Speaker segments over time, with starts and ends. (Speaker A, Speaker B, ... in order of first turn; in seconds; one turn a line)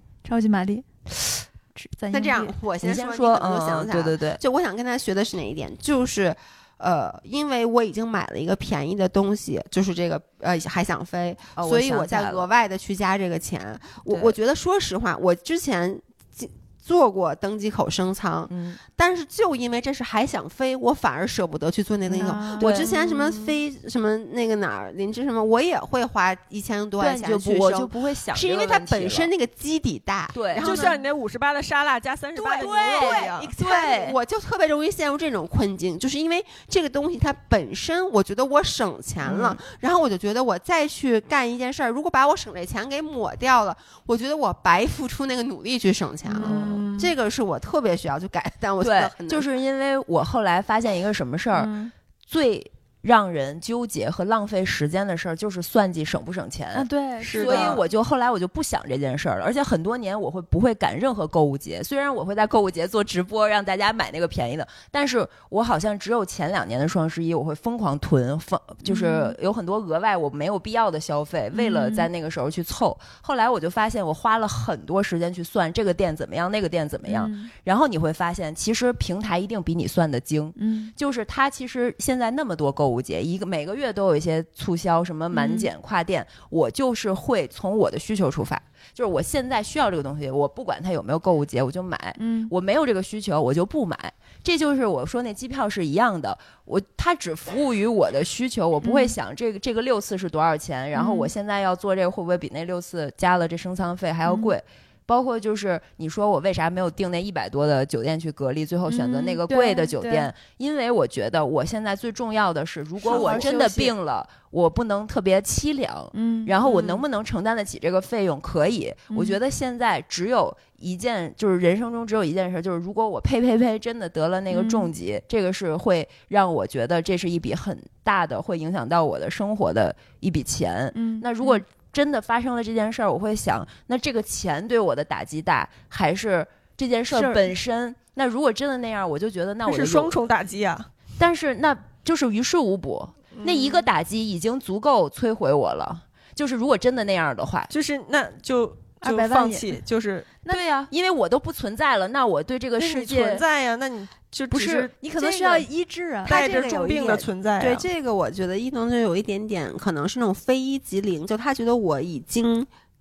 Speaker A: 0.2-2.5
Speaker B: 2.1-31.0
Speaker C: 2.8-4.4
Speaker C: 11.6-12.4
Speaker C: 14.1-14.3
Speaker C: 18.5-18.8
Speaker A: 22.1-23.4
Speaker C: 22.6-22.9
Speaker C: 27.0-29.3
Speaker C: 30.3-30.8
Speaker D: 30.6-33.5
Speaker B: 32.4-49.4
Speaker C: 32.5-34.1
Speaker C: 39.2-39.6
Speaker A: 46.2-47.0
Speaker C: 46.4-46.8
Speaker C: 48.8-51.7
Speaker A: 51.5-51.9
Speaker C: 52.3-140.1
Speaker A: 56.7-57.8
Speaker D: 57.2-57.8
Speaker A: 68.8-69.3
Speaker A: 71.5-72.1
Speaker A: 77.0-77.5
Speaker A: 80.5-80.9
Speaker A: 85.3-85.7
Speaker A: 92.2-92.5
Speaker A: 98.8-99.1
Speaker A: 100.9-101.3
Speaker A: 104.2-104.5
Speaker A: 108.9-110.3
Speaker A: 113.0-113.9
Speaker B: 113.1-113.4
Speaker A: 116.1-116.8
Speaker A: 119.1-119.4
Speaker A: 124.5-124.9
Speaker A: 130.9-131.6
Speaker A: 137.1-137.5
Speaker D: 139.6-140.9
Speaker C: 141.2-147.7
Speaker D: 143.3-143.8
Speaker D: 147.7-150.3
Speaker A: 149.0-149.8
Speaker C: 150.5-153.4
Speaker D: 152.8-154.9
Speaker C: 154.5-155.6
Speaker A: 154.9-156.4
Speaker D: 156.2-157.8
Speaker B: 156.2-162.7